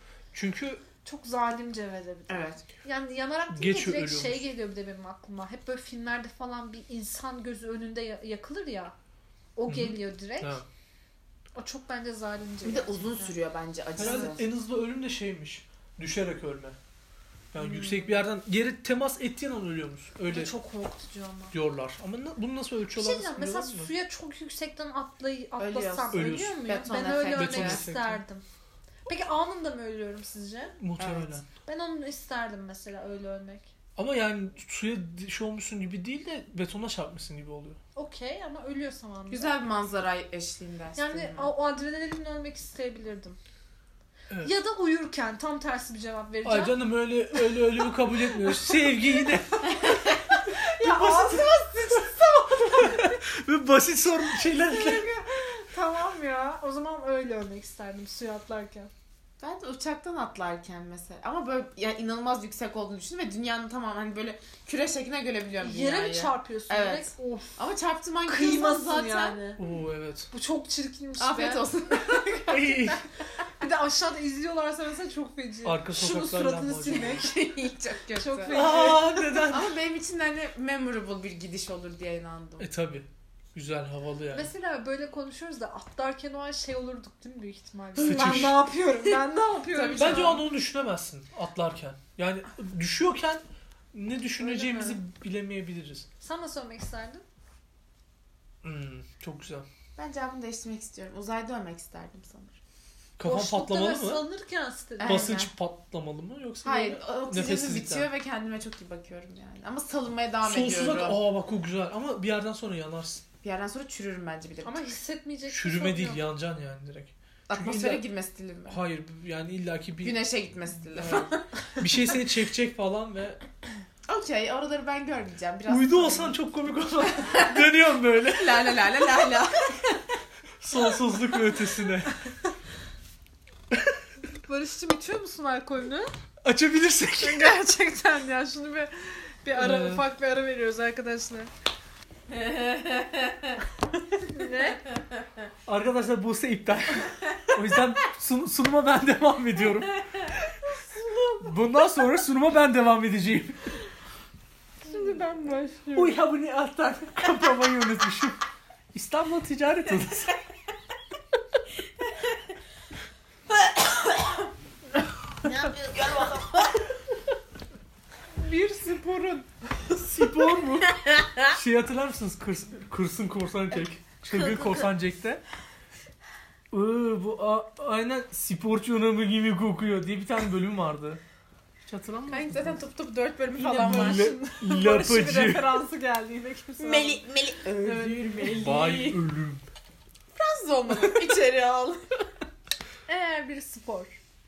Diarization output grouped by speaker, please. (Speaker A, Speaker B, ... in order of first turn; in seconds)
Speaker A: 0.3-0.8, 3.5-4.4, 9.7-10.6, 14.0-16.8, 17.5-20.5, 21.5-23.9, 26.1-26.6, 27.3-28.2, 30.8-31.4, 34.0-37.8, 46.4-55.1, 69.6-70.3, 72.5-73.0, 75.6-77.2, 78.5-79.7, 82.6-84.5, 88.0-88.7, 89.9-96.1, 98.6-99.7, 103.2-104.2, 105.0-108.1, 110.4-113.2, 115.5-118.0, 118.7-120.2, 120.9-123.4, 125.7-128.9, 130.6-132.2, 133.7-134.0, 136.4-137.5, 139.5-140.0, 145.7-150.0, 151.4-153.8, 155.9-158.4, 158.9-160.4, 169.9-175.4, 176.7-181.2, 181.8-182.8, 183.7-185.8, 187.9-189.6
Speaker B: 1.0-8.9, 9.6-10.6, 11.5-13.3, 14.0-14.3, 17.6-18.2, 20.2-21.6, 22.9-28.4, 29.1-30.8, 31.6-33.7, 38.0-39.5, 41.0-43.4, 44.4-46.8, 48.2-48.9, 49.7-53.2, 54.5-58.9, 65.6-67.6, 68.2-69.6, 70.3-72.5, 73.6-77.3, 78.1-79.5, 84.3-90.4, 96.2-97.2, 103.2-105.5, 114.6-116.2, 134.4-136.1, 137.2-141.5, 144.1-144.8, 150.6-151.5, 154.8-155.8, 168.3-169.5, 183.5-188.8, 193.1-194.2
Speaker C: 2.3-2.6, 12.6-14.4, 25.6-27.8, 31.0-31.4, 39.3-41.5, 59.4-69.4, 71.2-72.9, 76.9-82.7, 88.0-88.4, 89.0-90.4, 94.4-95.0, 100.0-102.6, 105.0-105.5, 106.6-111.2, 113.4-115.0, 117.5-118.8, 120.0-121.5, 124.1-126.3, 127.2-127.7, 128.2-130.2, 142.3-143.6, 154.9-156.1, 163.6-164.5, 165.4-166.8, 182.3-184.3, 186.8-189.2, 190.3-192.2